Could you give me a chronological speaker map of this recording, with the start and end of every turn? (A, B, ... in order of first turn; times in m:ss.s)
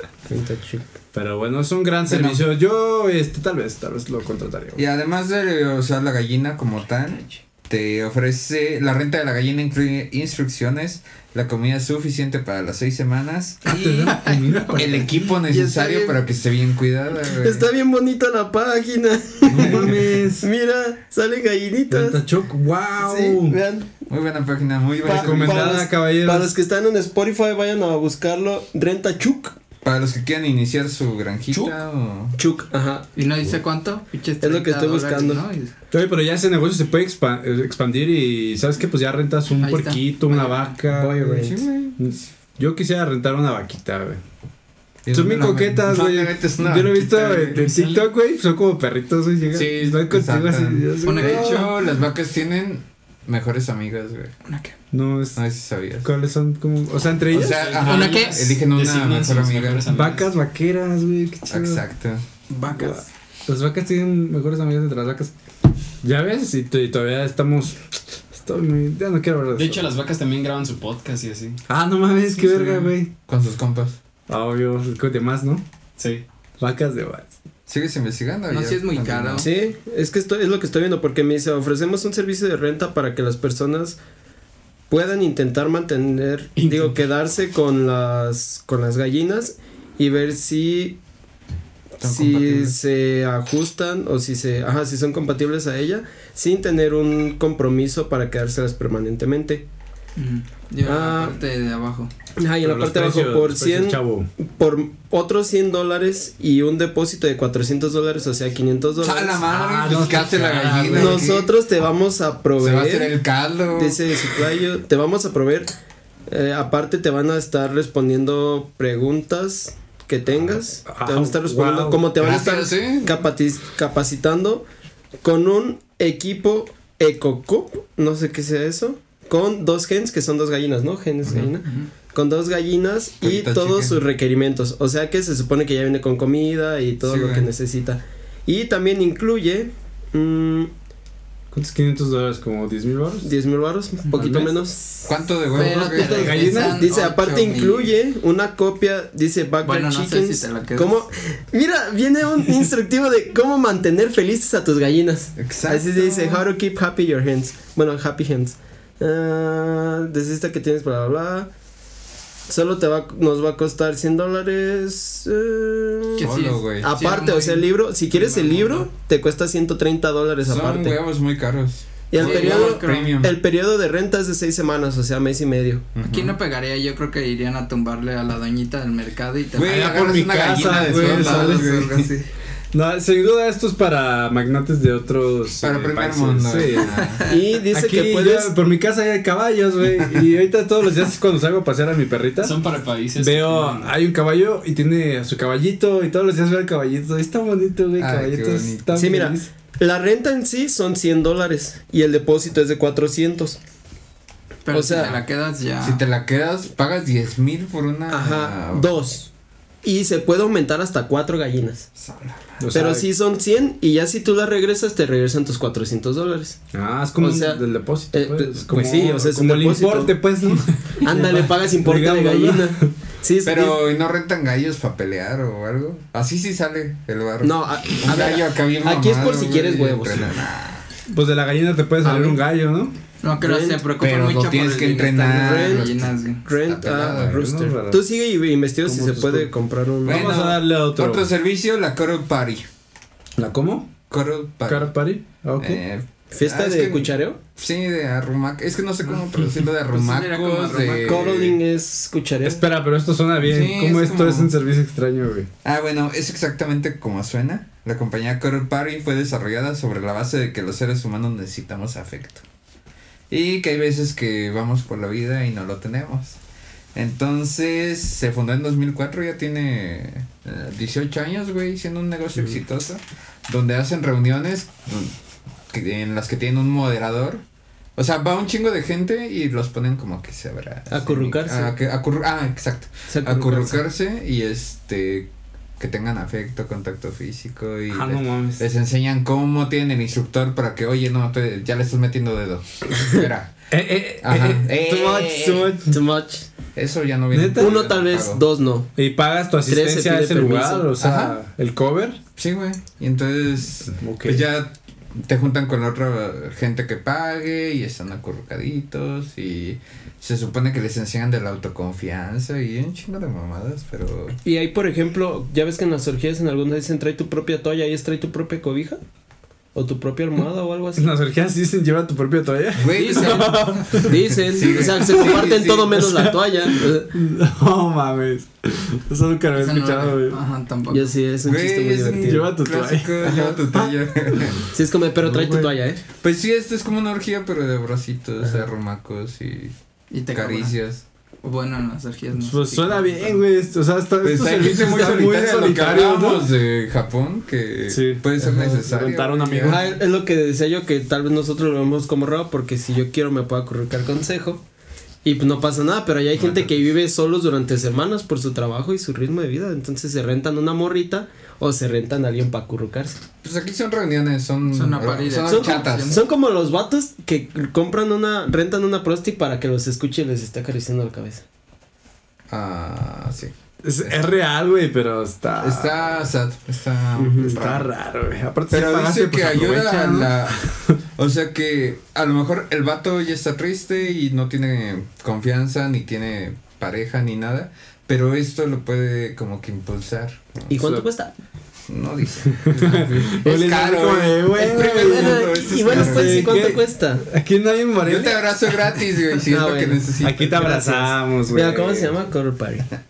0:00.3-0:00.8 A
0:01.1-0:04.8 B
0:02.1-0:02.5 C
0:04.8-0:13.9 C
0:13.6-0:15.1 B
0:13.7-0:16.2 D
0:14.8-0:17.7 C
0:17.3-0:22.2 A
0:19.5-0:20.5 B
0:19.5-0:20.0 C
0:21.9-0:23.6 B
0:23.0-0:23.9 A
0:24.1-0:25.9 C
0:25.0-0:29.6 A
0:25.1-0:26.5 B
0:29.8-0:32.4 C
0:32.4-0:33.1 A
0:33.2-0:35.7 D
0:34.4-0:35.4 A
0:35.9-0:44.2 B
0:39.6-0:40.8 D
0:40.9-0:41.6 A
0:41.2-0:42.2 C
0:45.0-0:47.6 C
0:45.1-0:51.6 B
0:47.5-0:48.1 E
0:49.5-0:54.3 C
0:51.0-0:51.7 D
0:54.5-0:54.8 D
0:54.9-0:55.4 B
0:55.4-0:56.1 C
0:56.0-0:57.7 B
0:57.3-0:59.9 C
0:57.4-1:00.3 E
0:57.7-0:58.5 D
0:59.9-1:01.8 B
1:01.5-1:02.3 C
1:02.5-1:03.1 D
1:02.7-1:05.3 B
1:06.0-1:07.8 B
1:08.3-1:09.9 B
1:09.5-1:11.6 E
1:11.7-1:13.1 B
1:12.5-1:12.9 D
1:13.3-1:14.0 C
1:14.3-1:15.6 B
1:16.0-1:16.2 E
1:16.6-1:17.3 B
1:17.7-1:19.5 C
1:18.5-1:19.5 D
1:19.4-1:24.0 A
1:24.9-1:31.0 A
1:26.6-1:26.9 E
1:32.0-1:39.6 A
1:32.0-1:32.8 C
1:40.2-1:42.1 D
1:40.8-1:41.4 A
1:42.4-1:49.5 A
1:42.6-1:44.3 B
1:49.0-1:51.5 C
1:49.5-1:51.3 B
1:50.9-1:53.2 A
1:52.6-1:54.4 C
1:53.7-1:55.7 A
1:56.3-2:04.7 A
2:00.9-2:02.2 B
2:02.2-2:03.3 C
2:05.2-2:20.7 A
2:13.2-2:14.0 C
2:17.0-2:17.5 C
2:21.5-2:23.3 B
2:23.2-2:25.1 A
2:24.1-2:24.5 B
2:25.1-2:26.5 C
2:25.5-2:27.9 D
2:25.9-2:41.5 A
2:25.9-2:26.9 B
2:29.6-2:31.0 D
2:35.4-2:36.4 C
2:42.5-2:51.0 A
2:46.2-2:48.8 D
2:46.2-2:46.9 C
2:50.4-2:53.4 C
2:52.1-2:55.9 A
2:52.2-2:53.1 D
2:56.0-2:56.4 C
2:56.0-3:02.3 D
2:59.6-3:02.1 C
2:59.6-3:01.7 B
3:02.7-3:07.0 B
3:05.6-3:07.2 C
3:06.9-3:07.4 D
3:07.3-3:08.5 A
3:07.7-3:12.6 B
3:12.4-3:13.9 E
3:13.2-3:19.5 B
3:18.0-3:19.1 C
3:18.9-3:23.6 A
3:24.6-3:26.0 D
3:24.7-3:25.2 A
3:25.8-3:28.9 C
3:28.1-3:29.3 A
3:29.8-3:31.9 A
3:32.0-3:32.6 C
3:32.6-3:33.1 B
3:32.7-3:36.6 A
3:36.7-3:42.9 B
3:37.2-3:40.2 A
3:41.0-3:43.8 A
3:43.4-3:50.9 C
3:47.4-3:50.3 A
3:51.1-3:53.0 B
3:52.0-3:52.4 A
3:53.2-3:56.4 D
3:53.4-3:53.8 A
3:54.0-3:57.5 C
3:55.1-3:55.9 A
3:56.4-4:00.3 A
3:57.1-3:58.0 B
3:58.8-3:59.5 B
4:00.0-4:01.3 B
4:00.0-4:02.7 C
4:03.4-4:03.9 B
4:04.1-4:05.0 C
4:04.7-4:05.8 B
4:05.6-4:11.6 C
4:06.3-4:07.4 A
4:09.9-4:11.4 D
4:11.0-4:12.6 A
4:12.4-4:15.5 B
4:13.4-4:14.5 C
4:15.6-4:22.4 C
4:23.3-4:26.4 C
4:27.0-4:35.2 C
4:35.7-4:37.4 C
4:38.0-4:53.6 C
4:40.9-4:41.8 A
4:43.1-4:43.8 A
4:47.9-4:48.6 B
4:53.7-4:56.0 B
4:54.2-4:55.8 C
4:55.9-4:56.5 A
4:56.8-4:58.4 C
4:57.3-4:57.8 B
4:57.6-4:58.9 A
4:59.0-5:02.2 B
4:59.6-5:00.9 A
5:01.0-5:01.4 C
5:02.4-5:14.4 C
5:03.9-5:04.4 B
5:14.4-5:19.0 A
5:19.7-5:21.1 A
5:21.0-5:24.2 B
5:22.8-5:26.1 C
5:23.0-5:23.8 D
5:23.9-5:27.1 A
5:24.8-5:30.4 B
5:29.5-5:31.2 D
5:30.9-5:32.5 A
5:31.4-5:34.6 C
5:32.1-5:34.6 B
5:33.2-5:33.6 A
5:34.7-5:36.0 A
5:35.2-5:35.7 B
5:36.2-5:39.8 C
5:38.4-5:38.7 A
5:40.1-5:40.8 D
5:40.3-5:41.0 C
5:41.4-5:43.4 D
5:42.4-5:46.5 B
5:44.2-5:49.9 C
5:47.9-5:50.0 B
5:49.6-5:54.6 A
5:55.2-6:03.2 A
5:56.4-5:56.7 C
6:03.4-6:06.2 C
6:04.7-6:06.2 D
6:05.5-6:11.4 A
6:12.5-6:14.3 C
6:13.8-6:16.2 B
6:15.6-6:17.9 C
6:17.2-6:17.6 A
6:17.5-6:20.9 B
6:18.7-6:20.6 C
6:21.2-6:30.7 C
6:30.7-6:31.3 A
6:31.9-6:36.8 C
6:32.6-6:38.5 B
6:34.7-6:37.2 A
6:38.0-6:40.7 C
6:39.5-6:42.9 A
6:40.2-6:42.2 B